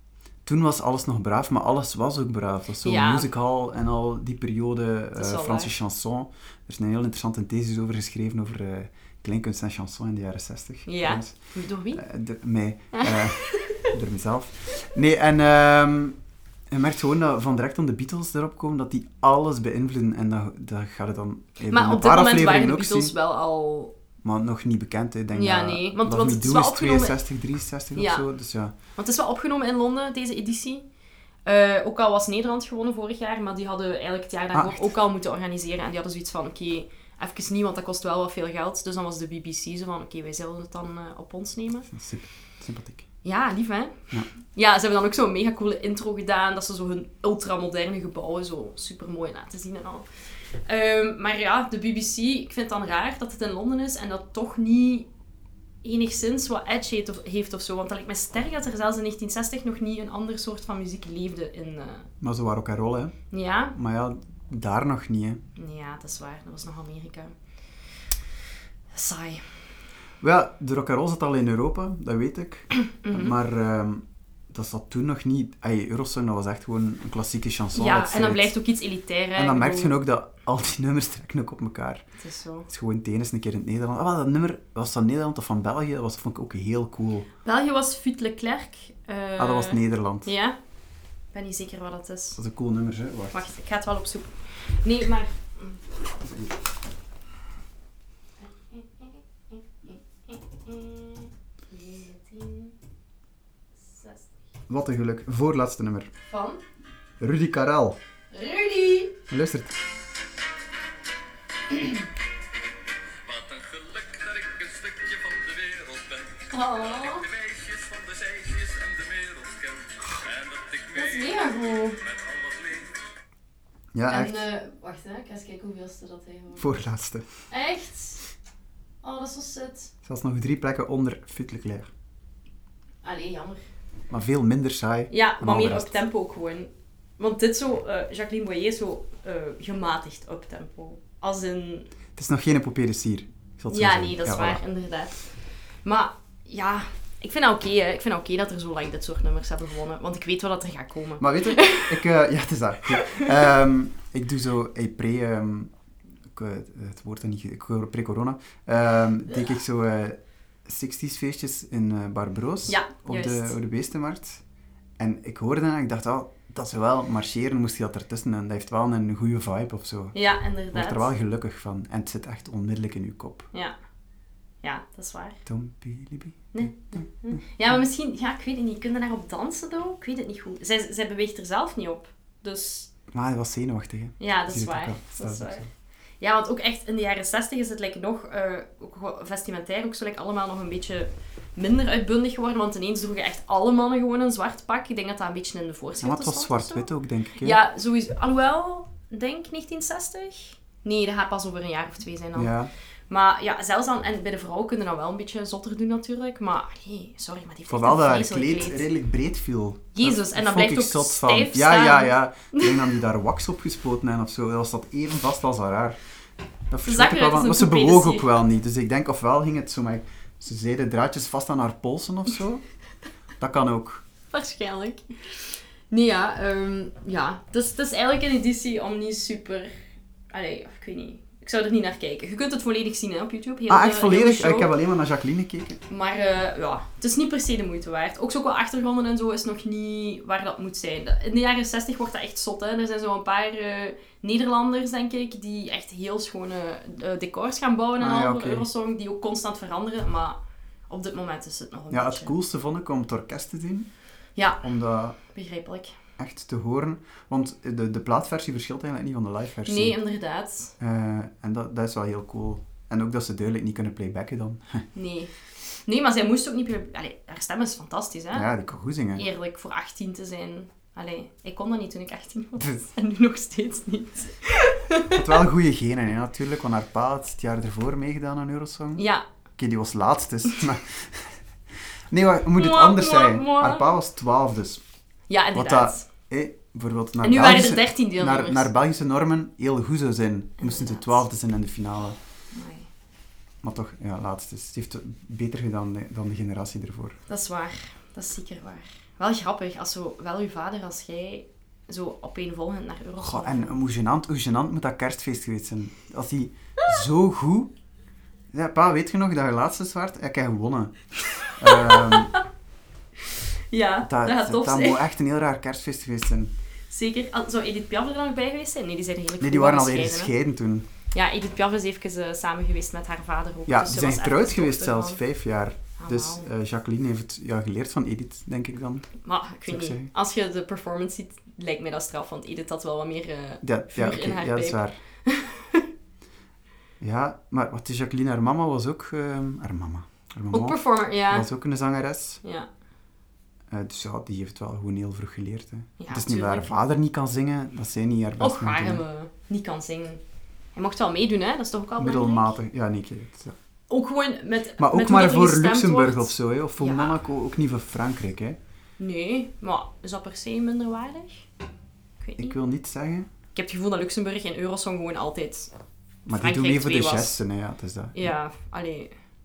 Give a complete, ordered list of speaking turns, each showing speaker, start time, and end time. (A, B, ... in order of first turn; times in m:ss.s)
0:00.4-0:11.4 A
0:02.8-0:03.3 B
0:05.2-0:05.8 B
0:10.9-0:12.0 B
0:11.9-0:16.2 A
0:12.9-0:13.9 B
0:16.7-0:23.2 A
0:21.7-0:23.9 B
0:24.2-0:28.7 A
0:25.3-0:27.2 B
0:28.0-0:28.2 B
0:29.0-0:30.8 B
0:31.4-0:41.9 B
0:34.5-0:34.9 A
0:41.9-0:43.1 A
0:43.2-0:50.1 B
0:50.6-0:55.1 B
0:55.8-1:02.1 B
1:02.2-1:03.2 A
1:03.3-1:03.8 B
1:03.7-1:05.4 A
1:05.6-1:07.3 B
1:08.9-1:09.4 B
1:10.2-1:18.5 A
1:12.9-1:13.3 B
1:17.8-1:20.0 B
1:19.4-1:22.0 A
1:22.2-1:22.7 B
1:22.7-1:27.3 A
1:27.4-1:30.6 B
1:29.4-1:30.3 A
1:31.3-1:32.4 B
1:32.4-1:33.4 A
1:33.3-1:35.8 B
1:36.2-1:36.6 A
1:38.4-1:42.7 B
1:43.9-1:44.3 B
1:44.7-1:46.1 A
1:46.3-1:46.6 B
1:47.2-1:48.0 A
1:48.3-1:49.2 B
1:49.3-1:49.8 A
1:53.2-2:03.0 C
1:56.5-1:57.3 B
2:01.0-2:02.0 B
2:03.9-2:04.5 A
2:04.1-2:06.7 B
2:06.6-2:07.3 A
2:07.5-2:08.3 B
2:09.0-2:09.9 B
2:10.0-2:11.9 A
2:13.0-2:13.6 B
2:14.1-2:16.0 A
2:15.1-2:21.9 B
2:22.2-2:24.6 A
2:23.7-2:25.3 B
2:25.8-2:32.0 B
2:31.2-2:35.7 A
2:32.9-2:33.4 B
2:36.3-2:44.4 A
2:42.7-2:43.6 B
2:45.0-2:50.2 A
2:50.1-2:51.1 B
2:50.7-2:53.5 A
2:54.6-2:55.4 B
2:55.5-2:57.0 A
2:56.5-3:02.9 B
3:03.1-3:05.7 A
3:04.2-3:05.7 B
3:06.2-3:22.5 B
3:16.0-3:17.6 A
3:22.4-3:22.7 A
3:23.1-3:28.9 B
3:27.7-3:36.0 A
3:30.0-3:32.7 B
3:36.7-3:42.6 A
3:36.8-3:38.3 B
3:43.4-3:44.0 A
3:44.3-3:49.7 B
3:50.3-3:54.7 B
3:53.7-3:55.8 A
3:55.9-4:10.4 B
4:08.0-4:08.7 A
4:10.9-4:12.3 B
4:11.9-4:13.9 A
4:14.4-4:14.6 B
4:14.6-4:15.2 A
4:15.3-4:16.0 B
4:16.2-4:20.0 A
4:19.7-4:20.8 B
4:20.8-4:24.8 A
4:25.0-4:25.3 B
4:25.9-4:28.5 B
4:28.3-4:29.2 A
4:29.2-4:35.3 B
4:35.1-4:39.0 A
4:39.0-4:39.2 B
4:39.6-4:41.4 A
4:42.1-4:44.8 A
4:42.6-4:43.9 B
4:45.3-4:46.1 B
4:45.5-4:52.2 A
4:47.2-4:48.7 B
4:50.6-4:51.2 B
4:52.5-4:52.9 B
4:53.6-4:57.2 A
4:57.3-5:03.8 B
5:03.2-5:07.7 A
5:08.5-5:12.3 A
5:11.4-5:12.4 B
5:13.7-5:15.0 B
5:14.0-5:16.5 A
5:16.9-5:20.3 B
5:19.4-5:20.9 A
5:21.1-5:25.2 B
5:23.7-5:29.1 A
5:26.0-5:26.5 B
5:29.2-5:35.9 B
5:29.7-5:30.1 A
5:33.6-5:35.0 A
5:37.0-5:42.4 A
5:40.5-5:41.5 B
5:42.4-5:42.7 B
5:43.7-5:49.0 A
5:46.0-5:46.8 B
5:48.4-5:50.2 B
5:50.8-5:52.5 B
5:52.0-5:53.6 A
5:53.9-5:57.2 B
5:54.8-5:58.6 A
5:59.0-6:01.5 B
6:02.2-6:02.6 B
6:02.4-6:03.3 A
6:03.6-6:05.7 B
6:06.3-6:07.3 B
6:06.3-6:08.3 A
6:08.2-6:09.1 B